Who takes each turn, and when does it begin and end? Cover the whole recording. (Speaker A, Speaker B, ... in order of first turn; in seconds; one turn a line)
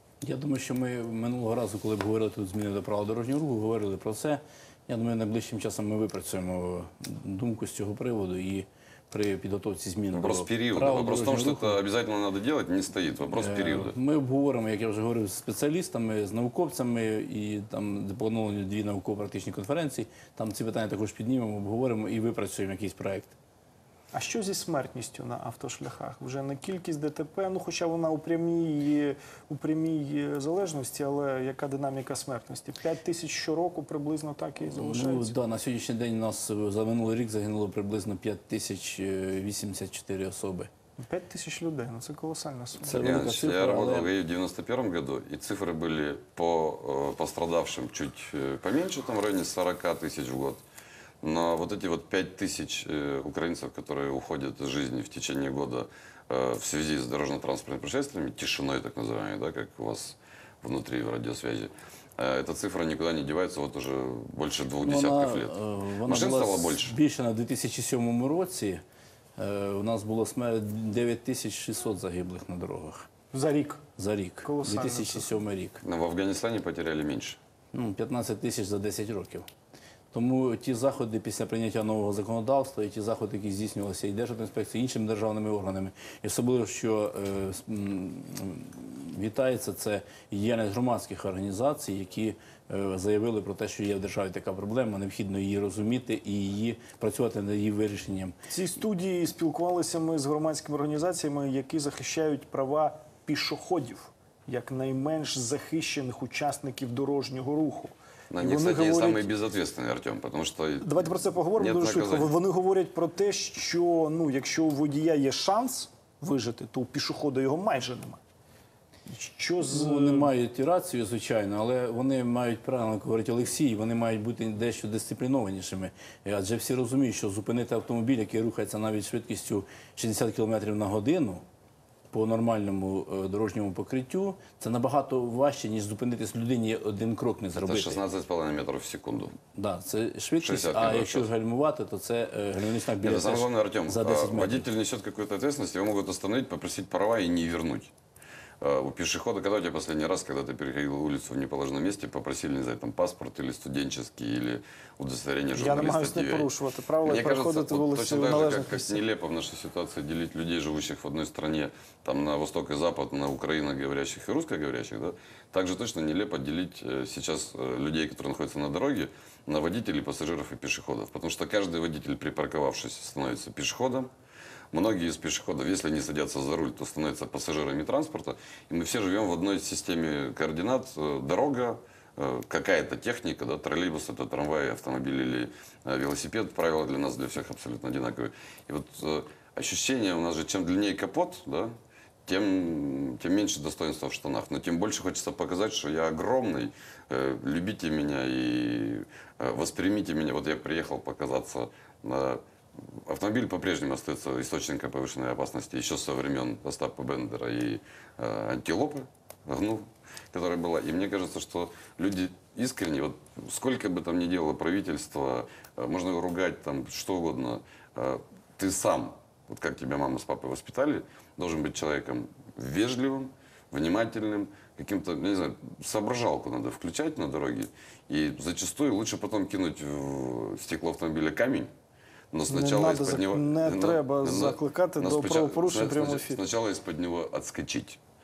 Speaker A: 0.2-11.8
Speaker B: 10.1-13.9
Speaker A: 13.3-23.3
Speaker C: 24.1-35.3
Speaker A: 34.7-40.7
Speaker C: 41.0-43.0
Speaker A: 42.8-44.1
Speaker B: 42.9-50.6
Speaker B: 51.2-65.5
Speaker A: 64.8-68.8
Speaker B: 66.0-67.0
Speaker A: 69.4-73.1
Speaker C: 73.3-73.8
Speaker A: 74.0-75.8
Speaker C: 74.4-75.3
Speaker B: 75.8-77.4
Speaker A: 77.7-79.5
Speaker A: 80.1-98.3
Speaker C: 98.5-109.2
Speaker B: 108.3-111.0
Speaker C: 110.8-118.2
Speaker B: 111.5-112.3
Speaker C: 119.1-120.3
Speaker A: 119.6-131.4
Speaker A: 132.1-138.0
Speaker B: 137.6-139.3
Speaker A: 139.5-144.7
Speaker B: 140.4-141.3
Speaker B: 143.0-147.9
Speaker B: 148.6-156.5
Speaker C: 155.6-159.0
Speaker B: 157.0-174.1
Speaker B: 174.7-191.7
Speaker B: 192.2-231.7
Speaker B: 232.3-238.0
Speaker C: 232.5-236.4